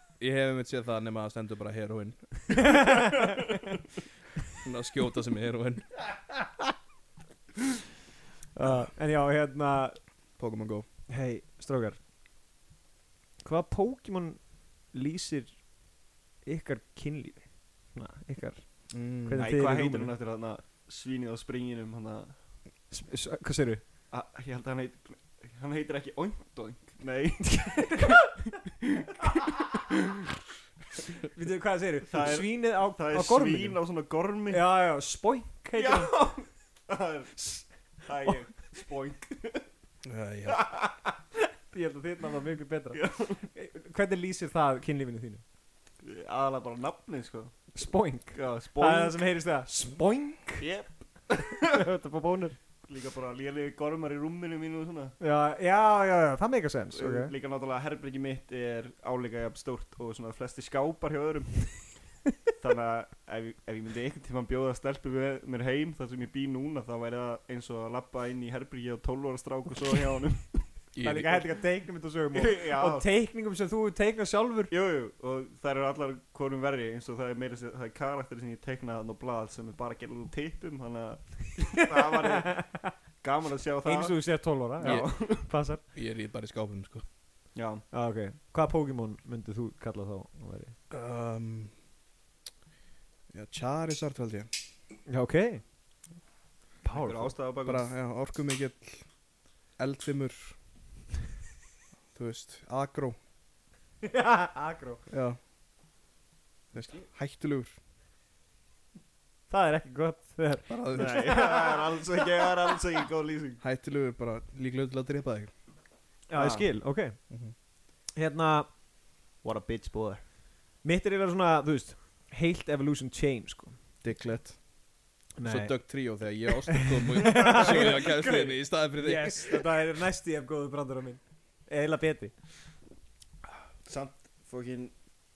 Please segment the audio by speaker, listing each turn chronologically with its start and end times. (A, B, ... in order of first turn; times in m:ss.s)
0:00.2-0:02.3 A
0:02.6-0:03.4 B
0:04.6-0:05.9 A
0:08.5-0:10.0 B
0:10.4-0:10.8 A
0:11.1-0:12.0 B
0:13.4-0:15.6 B
0:16.4-0:18.6 B
0:18.9-0:19.4 A
0:19.2-0:20.1 B
0:19.4-0:22.4 C
0:22.9-0:23.8 B
0:24.1-0:28.1 C
0:27.5-0:28.3 B
0:28.8-0:29.8 C
0:31.3-0:33.8 B
0:32.1-0:34.6 C
0:34.5-0:36.1 B
0:35.8-0:39.6 C
0:40.0-0:40.6 A
0:40.5-0:40.9 C
0:41.7-0:45.4 B
0:42.9-0:43.4 C
0:46.0-0:47.7 C
0:47.7-0:50.6 B
0:48.3-0:49.2 C
0:50.6-0:51.7 C
0:51.6-0:52.6 B
0:52.8-0:55.1 C
0:55.2-0:57.3 B
0:56.9-1:01.9 C
1:02.6-1:10.7 C
1:10.9-1:11.4 A
1:11.0-1:14.7 B
1:12.3-1:13.1 C
1:14.7-1:25.5 C
1:22.1-1:22.9 B
1:23.8-1:25.8 B
1:24.8-1:27.0 A
1:27.5-1:27.8 C
1:27.9-1:30.7 B
1:30.9-1:31.7 A
1:33.3-1:34.5 A
1:35.1-1:35.6 B
1:36.8-1:37.3 B
1:36.9-1:37.9 C
1:37.6-1:39.1 A
1:39.8-1:40.5 A
1:42.1-1:43.2 A
1:44.0-1:45.0 B
1:45.1-1:45.4 A
1:46.7-1:47.7 A
1:49.5-1:51.9 B
1:50.7-1:51.3 A
1:50.9-1:53.6 C
1:53.6-1:55.5 A
1:56.3-1:57.2 B
1:56.3-1:56.6 C
1:58.1-1:58.7 B
1:59.4-2:00.2 C
2:00.8-2:03.7 B
2:04.0-2:04.6 A
2:05.4-2:06.0 B
2:05.4-2:09.5 A
2:06.7-2:12.3 B
2:07.3-2:08.0 C
2:13.8-2:14.9 C